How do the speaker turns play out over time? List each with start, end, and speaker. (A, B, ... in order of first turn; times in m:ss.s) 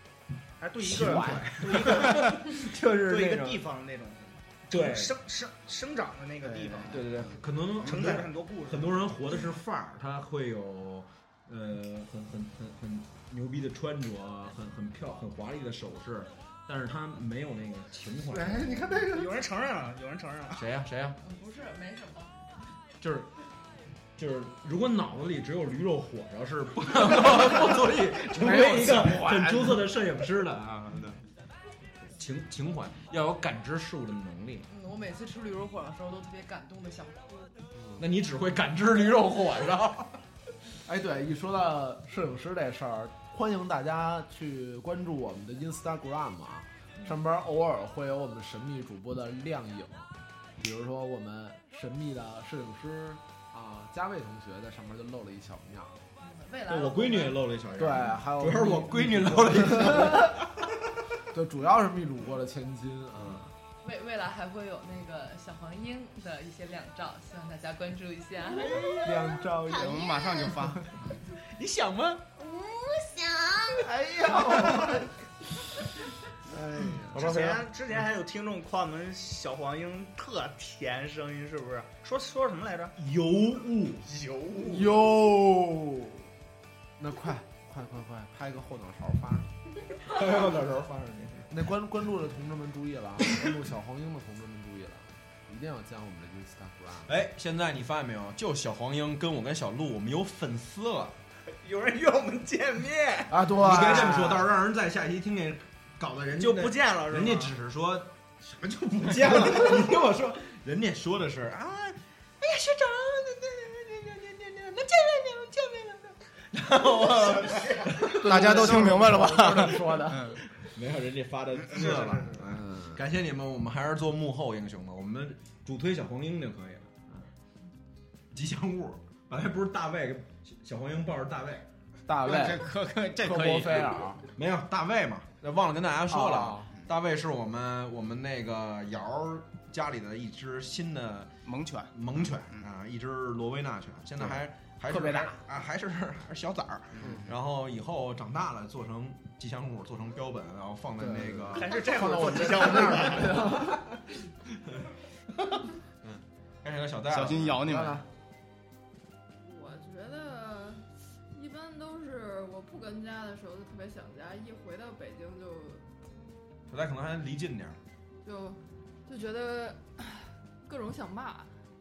0:00.6-0:07.0 A
0:00.8-0:03.6 B
0:00.9-0:01.6 C
0:04.7-0:05.2 B
0:06.4-0:07.4 D
0:06.9-0:19.0 B
0:07.8-0:09.1 A
0:18.4-0:19.3 C
0:19.1-0:20.6 A
0:20.5-0:21.2 B
0:21.2-0:22.3 E
0:23.0-0:23.3 B
0:24.2-0:31.2 B
0:28.3-0:29.9 C
0:32.1-0:34.7 B
0:34.7-0:37.5 E
0:38.0-0:40.2 B
0:40.8-0:56.0 C
0:56.2-0:57.4 E
0:56.7-1:00.6 B
0:57.8-1:00.4 C
1:01.3-1:03.5 C
1:03.1-1:03.4 B
1:03.8-1:08.7 E
1:08.6-1:09.2 B
1:08.7-1:10.6 F
1:09.0-1:10.0 C
1:09.7-1:10.9 D
1:11.4-1:12.2 B
1:12.4-1:13.9 F
1:13.8-1:15.0 C
1:16.5-1:17.6 C
1:17.1-1:22.9 A
1:23.0-1:24.1 B
1:24.0-1:24.9 A
1:24.7-1:26.3 C
1:27.0-1:29.6 C
1:30.0-1:31.5 B
1:31.5-1:37.1 C
1:37.0-1:41.2 B
1:41.6-1:43.4 A
1:43.3-1:44.5 C
1:43.6-1:58.9 B
1:46.4-1:47.5 A
1:58.0-2:00.4 C
1:58.2-2:00.4 D
2:00.5-2:07.2 B
2:01.7-2:02.4 D
2:02.4-2:03.0 C
2:08.3-2:11.6 B
2:12.0-2:14.2 C
2:12.2-2:14.1 D
2:14.3-2:21.3 B
2:16.1-2:16.7 C
2:21.4-2:22.6 D
2:21.9-2:31.8 B
2:24.9-2:25.4 C
2:27.0-2:27.3 D
2:31.0-2:33.9 C
2:31.5-2:33.5 A
2:34.6-2:34.9 B
2:35.5-2:37.6 B
2:37.1-2:38.0 D
2:37.6-2:38.0 C
2:39.4-2:45.8 G
2:46.7-2:47.8 B
2:48.2-2:51.5 G